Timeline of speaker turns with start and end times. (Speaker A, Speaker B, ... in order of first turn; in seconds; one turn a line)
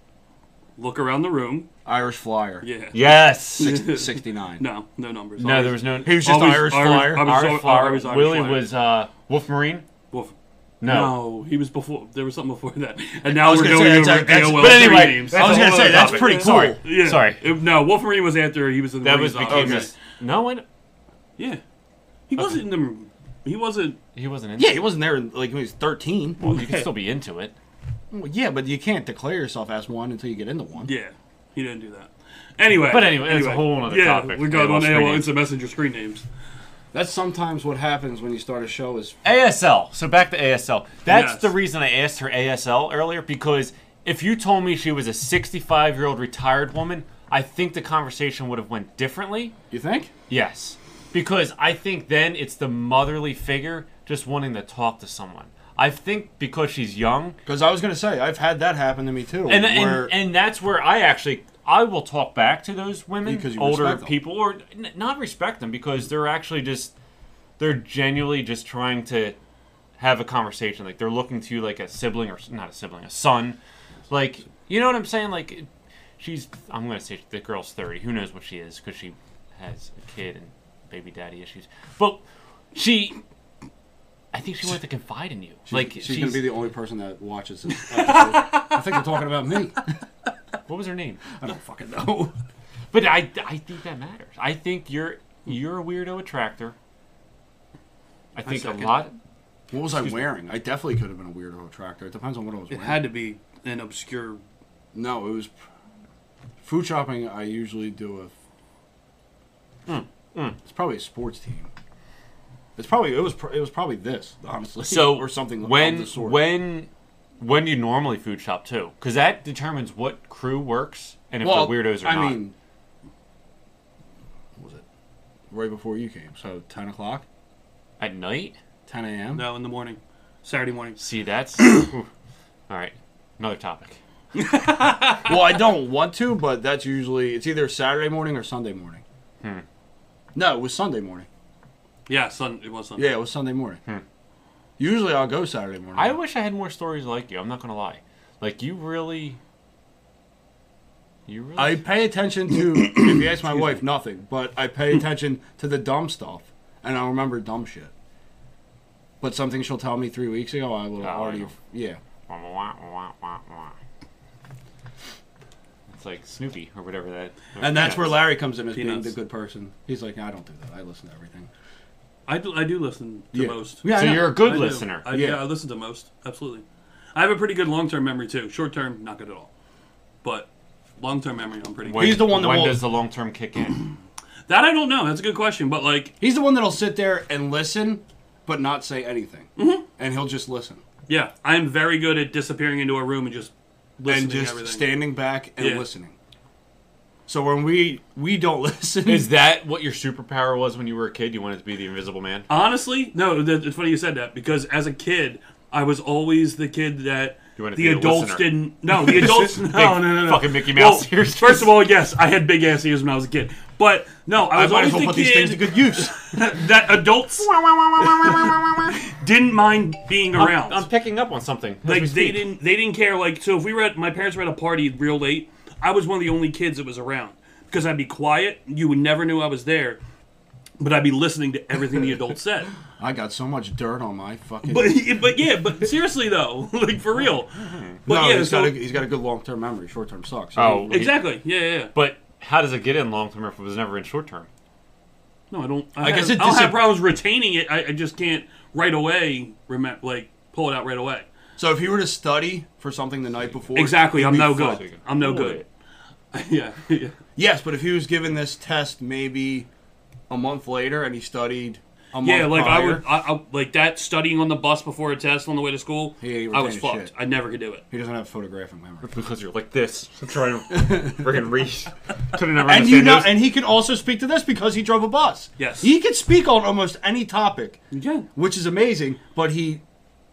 Speaker A: 0.8-1.7
Speaker B: 1.9-2.6
Speaker A: 2.6-3.0
Speaker C: 2.9-3.8
Speaker A: 3.5-8.7
Speaker B: 3.6-4.6
Speaker C: 5.4-6.6
Speaker B: 6.0-7.3
Speaker C: 7.2-9.9
Speaker A: 10.1-19.9
Speaker C: 10.8-11.2
Speaker B: 13.2-16.8
Speaker C: 14.5-17.4
Speaker C: 19.0-20.6
Speaker B: 19.5-19.9
Speaker A: 22.3-24.0
Speaker C: 24.1-24.9
Speaker B: 24.6-26.4
Speaker C: 26.4-27.5
Speaker A: 26.4-26.9
Speaker B: 28.1-30.9
Speaker A: 30.8-36.2
Speaker C: 32.9-35.4
Speaker B: 36.9-39.2
Speaker C: 39.2-49.5
Speaker A: 41.1-41.5
Speaker B: 49.7-50.1
Speaker C: 50.3-57.4
Speaker B: 57.5-60.1
Speaker C: 59.5-66.9
Speaker B: 63.2-64.2
Speaker C: 67.6-69.3
Speaker C: 70.0-75.7
Speaker C: 76.2-82.2
Speaker C: 82.7-83.2
Speaker C: 84.3-86.5
Speaker B: 85.7-89.9
Speaker A: 87.9-88.8
Speaker C: 90.7-91.2
Speaker B: 91.4-92.3
Speaker C: 92.9-96.7
Speaker C: 98.3-99.1
Speaker A: 98.4-99.1
Speaker B: 99.7-103.0
Speaker C: 99.9-100.2
Speaker A: 102.7-104.4
Speaker B: 104.9-105.5
Speaker B: 106.6-108.3
Speaker C: 109.9-110.6
Speaker B: 110.6-111.7
Speaker B: 112.8-116.5
Speaker C: 114.8-116.9
Speaker C: 117.4-122.4
Speaker B: 121.4-122.5
Speaker B: 124.6-124.8
Speaker B: 125.5-127.2
Speaker C: 128.0-128.6
Speaker B: 128.9-129.5
Speaker A: 129.3-131.0
Speaker C: 131.0-132.1
Speaker C: 132.7-134.0
Speaker A: 134.3-135.5
Speaker B: 135.2-139.0
Speaker B: 140.3-141.3
Speaker A: 142.1-143.1
Speaker B: 143.0-143.8
Speaker B: 144.8-146.2
Speaker C: 145.9-149.4
Speaker C: 151.3-151.9
Speaker B: 151.6-157.9
Speaker B: 159.2-162.0
Speaker C: 161.0-161.5
Speaker C: 162.3-163.7
Speaker C: 165.9-168.3
Speaker B: 167.6-171.5
Speaker A: 168.7-169.1
Speaker A: 172.3-176.6
Speaker B: 173.3-175.4
Speaker C: 173.9-175.1
Speaker A: 177.1-179.5
Speaker A: 180.2-182.3
Speaker C: 181.8-183.9
Speaker B: 181.9-182.8
Speaker A: 184.5-186.1
Speaker B: 186.2-190.8
Speaker A: 189.6-189.8
Speaker A: 191.1-194.9
Speaker B: 194.0-196.1
Speaker A: 195.6-195.8
Speaker B: 197.3-199.3
Speaker C: 199.1-202.4
Speaker A: 202.5-217.5
Speaker C: 207.6-211.8
Speaker B: 214.5-216.1
Speaker C: 217.4-218.9
Speaker A: 219.0-220.9
Speaker C: 220.3-222.5
Speaker A: 221.8-230.0
Speaker A: 230.8-232.7
Speaker B: 233.0-235.1
Speaker A: 234.6-238.8
Speaker C: 237.6-238.0
Speaker B: 238.1-241.1
Speaker C: 240.6-241.3
Speaker A: 240.9-241.9
Speaker C: 241.9-244.5
Speaker A: 245.5-251.3
Speaker B: 246.0-247.0
Speaker B: 251.6-254.8
Speaker C: 253.5-255.7
Speaker A: 253.7-255.7
Speaker A: 256.3-257.1
Speaker B: 257.4-259.7
Speaker B: 260.3-263.0
Speaker A: 262.2-267.8
Speaker B: 266.2-267.1
Speaker B: 267.9-269.1
Speaker C: 269.0-273.4
Speaker B: 270.7-271.3
Speaker B: 272.6-277.8
Speaker A: 275.6-275.9
Speaker A: 277.9-278.3
Speaker B: 278.3-279.8